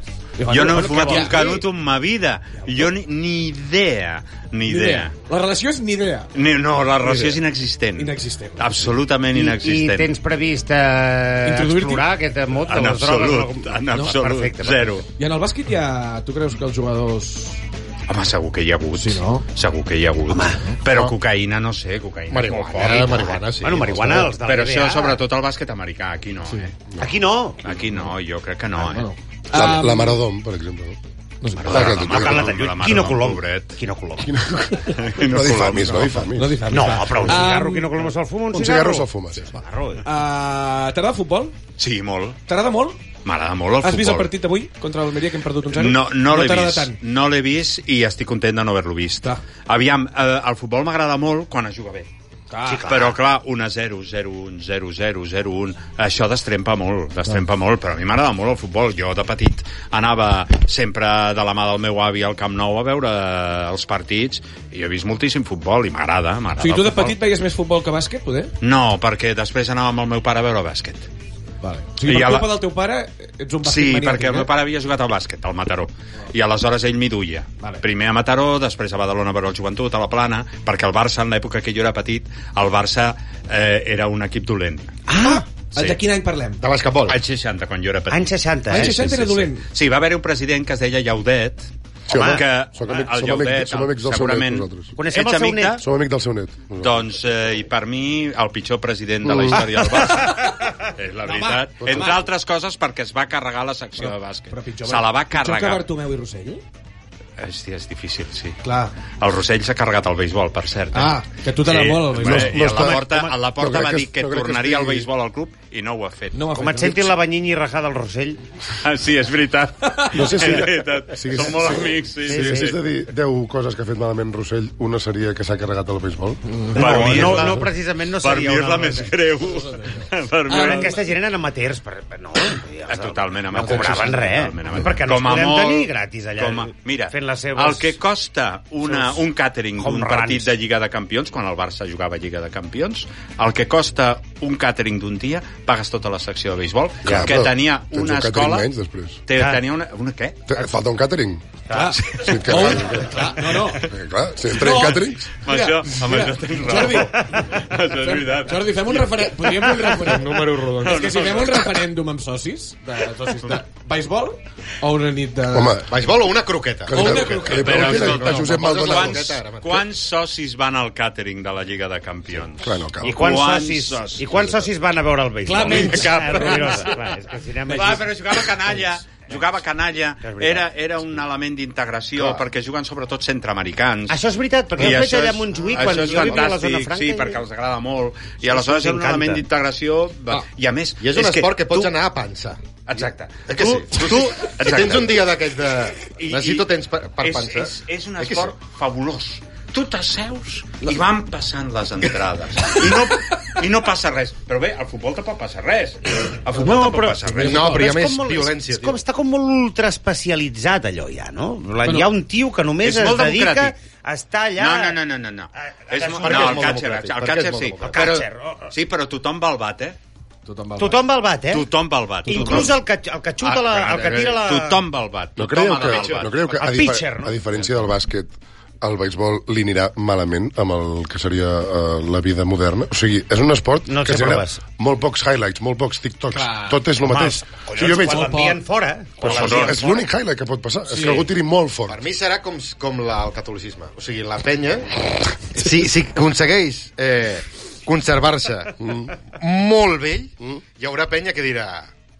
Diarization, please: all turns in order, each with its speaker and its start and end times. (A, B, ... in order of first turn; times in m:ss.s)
0:00.4-0:01.6 A
0:00.5-0:05.1 B
0:01.0-0:01.3 C
0:04.7-0:06.3 A
0:06.3-0:10.2 B
0:08.0-0:08.9 A
0:09.3-0:15.0 C
0:11.4-0:12.1 A
0:12.7-0:15.1 B
0:15.2-0:17.6 A
0:18.1-0:23.4 B
0:19.0-0:19.4 A
0:20.3-0:20.6 C
0:22.3-0:24.4 D
0:23.6-0:25.2 C
0:24.4-0:26.8 B
0:27.0-0:27.6 C
0:27.6-0:29.1 B
0:28.8-0:30.2 A
0:29.5-0:31.0 E
0:31.4-0:31.9 A
0:31.6-0:34.3 C
0:31.6-0:33.8 B
0:31.7-0:32.5 E
0:34.2-0:36.7 E
0:34.8-0:36.3 B
0:36.3-0:38.0 A
0:36.7-0:40.0 C
0:38.5-0:39.5 E
0:40.0-0:41.6 A
0:41.8-0:42.4 B
0:42.5-0:43.0 A
0:43.2-0:44.3 B
0:43.8-0:47.0 A
0:45.7-0:52.1 B
0:52.5-0:52.9 A
0:52.6-0:53.2 C
0:52.8-1:07.2 B
1:06.6-1:08.5 A
1:08.6-1:11.1 B
1:11.6-1:14.5 A
1:12.0-1:12.6 B
1:13.6-1:25.0 B
1:25.1-1:25.4 C
1:25.1-1:26.6 A
1:26.6-1:27.2 D
1:27.1-1:35.8 B
1:28.1-1:29.0 C
1:28.7-1:29.6 A
1:32.1-1:34.9 E
1:35.0-1:35.8 C
1:35.8-1:37.0 E
1:36.8-1:45.8 B
1:39.2-1:39.6 E
1:41.2-1:42.2 A
1:41.8-1:42.1 E
1:44.0-1:46.6 A
1:47.4-1:48.6 B
1:48.6-1:48.9 A
1:49.2-1:57.1 B
1:50.9-1:52.6 A
1:52.2-1:55.1 E
1:56.3-1:57.0 A
1:56.5-1:58.4 C
1:58.8-2:02.8 B
2:00.1-2:06.5 E
2:02.3-2:02.6 C
2:06.5-2:07.4 A
2:06.7-2:09.1 C
2:06.7-2:07.7 B
2:08.2-2:11.0 B
2:09.6-2:10.0 A
2:10.5-2:17.9 C
2:12.9-2:28.7 B
2:13.5-2:14.1 A
2:18.9-2:19.2 C
2:19.8-2:20.5 C
2:27.0-2:29.2 E
2:29.3-2:30.4 B
2:29.3-2:29.6 C
2:30.5-2:31.4 E
2:31.7-2:33.8 A
2:32.0-2:33.9 B
2:32.2-2:33.3 E
2:33.8-2:35.3 E
2:34.5-2:37.4 A
2:34.6-2:40.0 B
2:38.0-2:45.8 A
2:39.8-2:41.4 D
2:40.8-2:41.8 B
2:45.5-2:45.9 E
2:45.8-2:49.9 D
2:46.8-2:49.4 E
2:46.9-2:47.9 A
2:47.5-2:54.3 B
2:52.6-2:53.3 E
2:53.0-2:58.1 C
2:55.4-2:56.8 A
2:55.6-2:57.1 B
2:57.7-3:04.2 B
3:00.2-3:00.7 C
3:02.2-3:02.4 D
3:04.1-3:07.4 C
3:04.8-3:11.9 B
3:05.8-3:06.5 D
3:08.4-3:09.4 C
3:11.0-3:12.6 D
3:12.8-3:15.2 B
3:13.5-3:18.5 D
3:16.1-3:16.7 B
3:17.2-3:27.9 B
3:26.6-3:35.0 C
3:27.4-3:29.0 D
3:31.8-3:32.1 A
3:32.8-3:33.7 B
3:34.6-3:40.0 B
3:35.6-3:36.8 C
3:36.2-3:38.1 D
3:37.9-3:38.7 C
3:40.4-3:41.0 A
3:40.8-3:41.7 C
3:41.5-3:42.8 B
3:42.2-3:44.8 C
3:42.3-3:42.7 A
3:43.4-3:46.5 B
3:43.9-3:44.3 D
3:45.4-3:58.3 E
3:45.8-3:46.2 D
3:46.5-3:47.4 C
3:53.9-3:54.6 C
3:56.3-3:56.9 A
3:57.0-4:00.0 C
3:57.8-3:58.6 A
3:59.2-3:59.8 B
3:59.2-4:02.0 E
4:00.9-4:01.2 A
4:01.0-4:01.3 D
4:01.9-4:05.0 D
4:05.5-4:11.9 D
4:08.8-4:09.1 E